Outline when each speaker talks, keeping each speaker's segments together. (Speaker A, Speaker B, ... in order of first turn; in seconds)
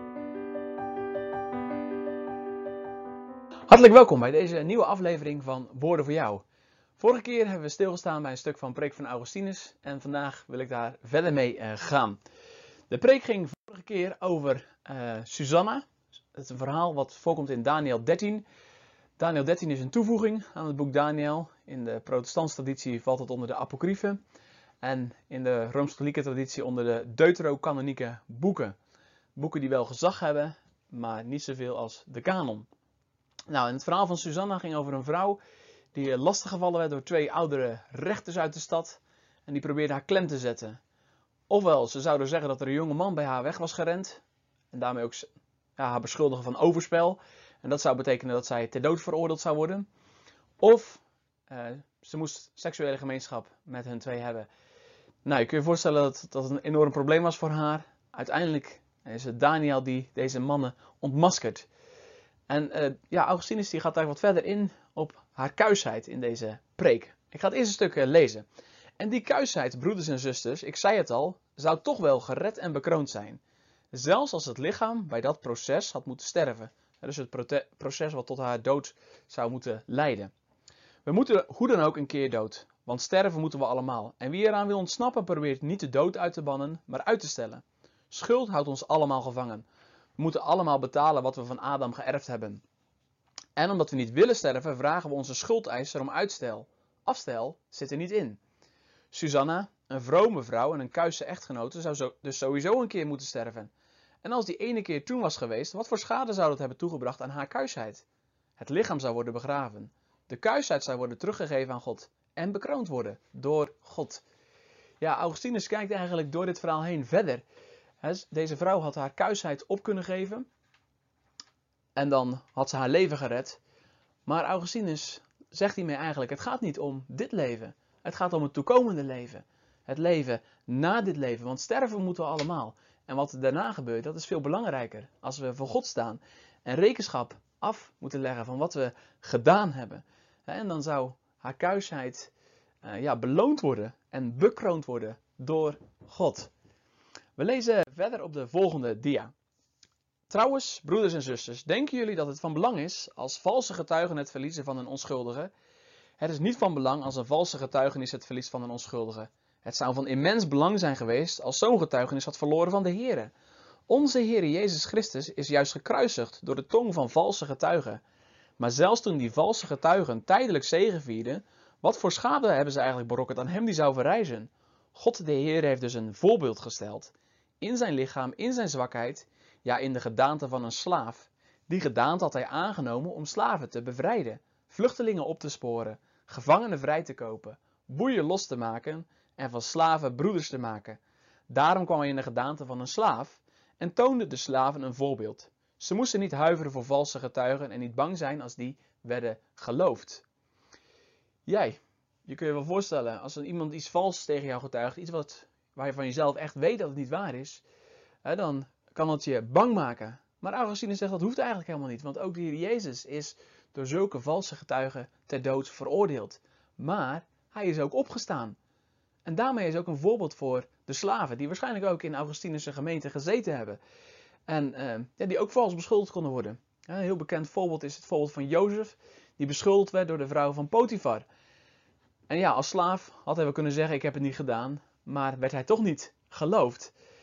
Speaker A: 3.7-6.4, 7.0-12.2, 12.9-18.4, 19.2-24.2, 24.8-28.8, 29.4-32.7, 33.5-35.4, 35.9-40.8, 41.5-49.9, 50.6-54.5, 55.2-61.7, 62.5-68.5, 69.0-73.4, 73.9-80.3, 81.0-89.7, 90.2-92.6, 93.6-98.4, 99.1-103.7, 104.2-108.0, 108.6-114.2, 115.0-117.4, 118.0-120.5, 122.0-123.6, 124.3-142.3, 142.8-146.5, 147.4-149.3, 150.3-155.5, 156.2-163.3, 163.9-168.0, 168.6-200.2, 201.5-207.6, 208.2-218.6, 219.2-223.8, 224.5-231.2, 232.3-236.9